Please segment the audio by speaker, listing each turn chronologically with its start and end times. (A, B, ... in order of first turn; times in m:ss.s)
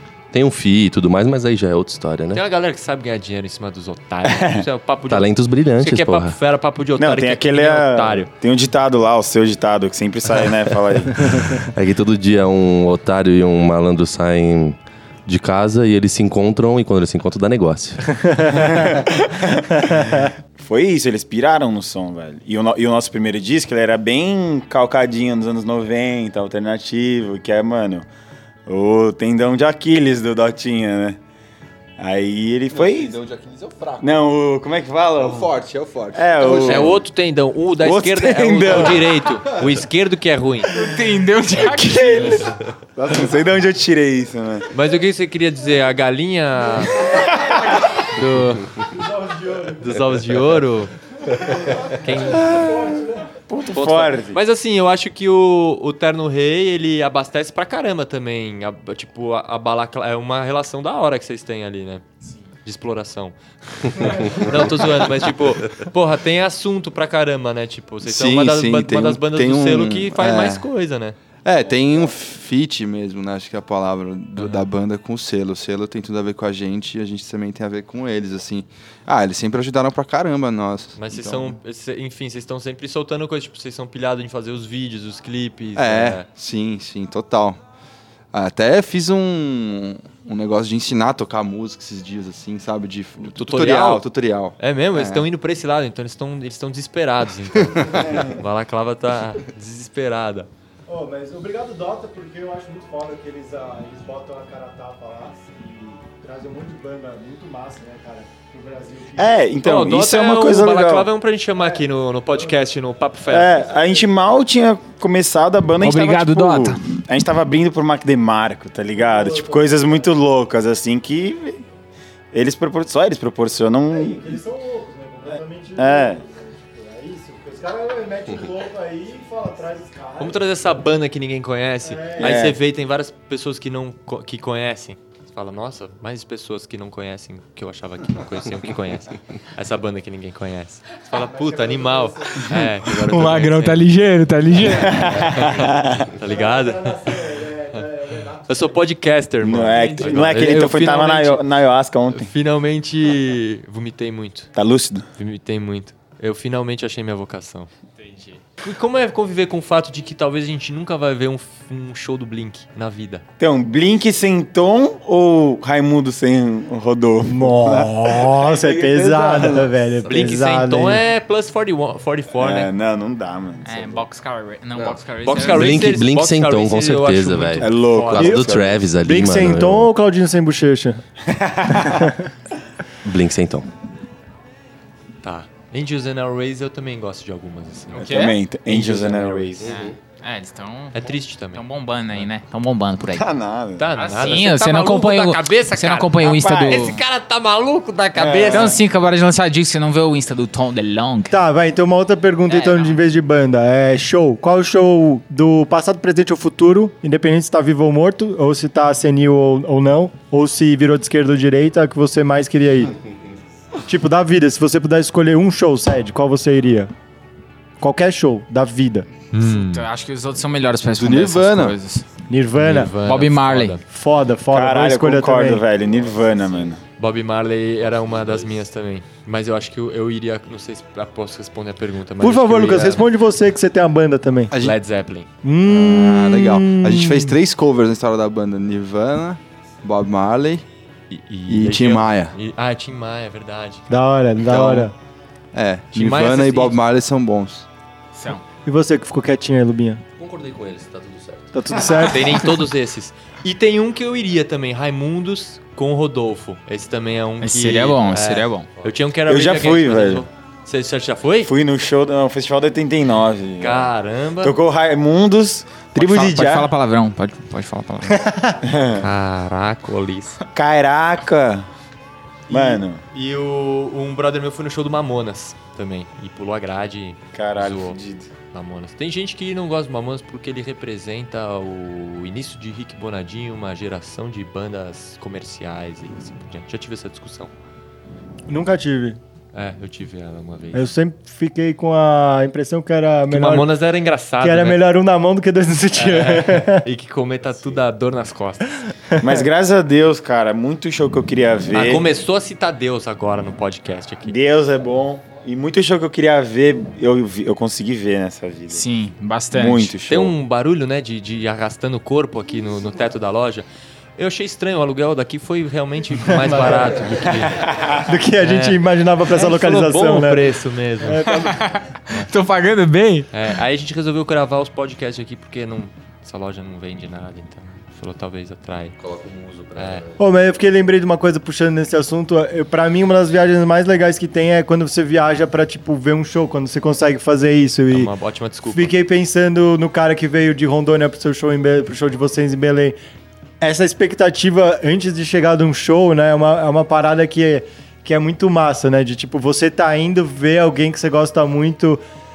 0:00.3-0:02.4 A
0:02.3-0:08.3 B
0:04.2-0:04.6 C
0:05.1-0:06.4 A
0:07.0-0:11.4 C
0:11.5-0:18.1 A
0:18.2-0:18.7 D
0:18.4-0:28.0 C
0:19.8-0:20.2 D
0:28.7-0:31.2 C
0:32.0-0:33.2 C
0:32.7-0:34.2 E
0:34.0-0:35.5 C
0:35.2-0:37.0 E
0:36.1-0:37.0 C
0:36.6-0:40.7 B
0:37.8-0:39.1 C
0:40.7-0:42.5 F
0:43.0-0:44.7 C
0:44.7-0:47.3 B
0:48.0-0:48.7 B
0:48.9-0:50.0 D
0:49.8-0:50.9 B
0:51.3-0:53.3 D
0:51.9-0:52.7 B
0:53.5-0:54.4 C
0:53.7-1:02.0 B
1:02.6-1:11.2 B
1:08.0-1:10.6 E
1:11.4-1:21.6 E
1:14.4-1:14.6 B
1:21.0-1:26.3 B
1:25.7-1:27.6 E
1:28.3-1:35.2 E
1:33.2-1:34.0 B
1:34.6-1:40.5 B
1:40.9-1:49.4 D
1:49.2-1:51.1 C
1:49.6-1:53.7 B
1:51.6-1:52.5 D
1:53.3-2:01.6 C
1:53.6-1:54.0 D
1:55.8-1:56.8 F
1:59.0-2:00.1 D
2:02.3-2:04.3 C
2:03.9-2:10.8 D
2:05.8-2:06.2 C
2:10.2-2:23.9 B
2:11.8-2:12.5 D
2:12.2-2:12.6 C
2:21.1-2:22.6 D
2:22.8-2:25.3 F
2:24.7-2:26.1 C
2:25.1-2:27.9 B
2:26.2-2:28.7 D
2:28.4-2:31.4 B
2:29.4-2:32.3 C
2:29.8-2:30.3 F
2:32.1-2:34.5 B
2:34.6-2:35.0 C
2:35.2-2:37.7 B
2:38.6-2:43.2 B
2:43.4-2:49.7 C
2:47.2-2:51.0 D
2:50.1-2:52.7 B
2:52.4-2:54.0 C
2:53.6-2:55.9 F
2:54.8-2:59.9 A
2:55.2-2:58.3 B
2:57.6-2:58.8 C
2:58.2-3:01.0 D
3:01.3-3:02.1 C
3:01.7-3:02.3 D
3:03.0-3:03.7 A
3:05.2-3:08.1 B
3:08.0-3:08.3 F
3:08.0-3:09.7 C
3:08.7-3:09.7 B
3:09.6-3:09.9 A
3:09.6-3:13.3 F
3:10.9-3:11.6 B
3:13.1-3:13.9 C
3:13.8-3:18.8 B
3:13.9-3:17.0 F
3:18.2-3:18.8 C
3:18.3-3:21.4 F
3:21.3-3:32.9 D
3:33.8-3:36.9 D
3:37.8-3:39.1 D
3:39.3-3:39.8 B
3:39.4-3:42.0 F
3:41.0-3:41.8 E
3:42.3-3:42.9 D
3:42.6-3:43.8 B
3:42.9-3:43.8 F
3:43.9-3:45.6 D
3:44.5-3:46.8 C
3:47.0-3:53.0 B
3:52.2-3:54.5 D
3:54.5-3:54.8 E
3:54.6-3:55.3 B
3:55.4-3:57.4 D
3:55.7-4:00.6 E
4:01.1-4:03.9 B
4:01.5-4:02.3 E
4:03.9-4:04.9 D
4:04.5-4:04.9 E
4:05.5-4:07.6 E
4:05.9-4:06.8 B
4:08.1-4:08.4 F
4:08.6-4:10.0 D
4:10.2-4:11.5 A
4:11.5-4:12.5 D
4:11.9-4:21.5 B
4:17.4-4:18.7 F
4:19.3-4:20.2 C
4:21.4-4:23.9 C
4:23.6-4:24.5 B
4:24.4-4:26.7 C
4:25.9-4:28.2 F
4:28.0-4:28.6 D
4:28.6-4:29.0 C
4:29.0-4:30.4 B
4:30.5-4:31.6 C
4:32.5-4:33.0 C
4:32.5-4:38.0 B
4:37.3-4:38.3 C
4:38.5-4:47.5 B
4:48.5-4:49.2 D
4:49.5-4:50.9 B
4:50.7-4:53.7 D
4:53.3-4:54.8 B
4:54.4-4:56.8 D
4:55.9-4:58.8 B
4:59.1-4:59.4 D
4:59.2-5:02.1 C
5:01.7-5:04.3 B
5:04.2-5:08.8 C
5:08.7-5:09.9 F
5:09.5-5:10.3 C
5:10.1-5:13.6 B
5:14.2-5:17.7 B
5:16.3-5:16.9 D
5:17.6-5:18.0 C
5:18.0-5:21.7 D
5:18.4-5:21.3 B
5:21.3-5:23.3 F
5:23.3-5:29.0 B
5:29.0-5:30.2 A
5:29.8-5:30.0 B
5:30.2-5:38.1 D
5:37.9-5:38.9 B
5:38.7-5:43.0 D
5:43.6-5:52.0 D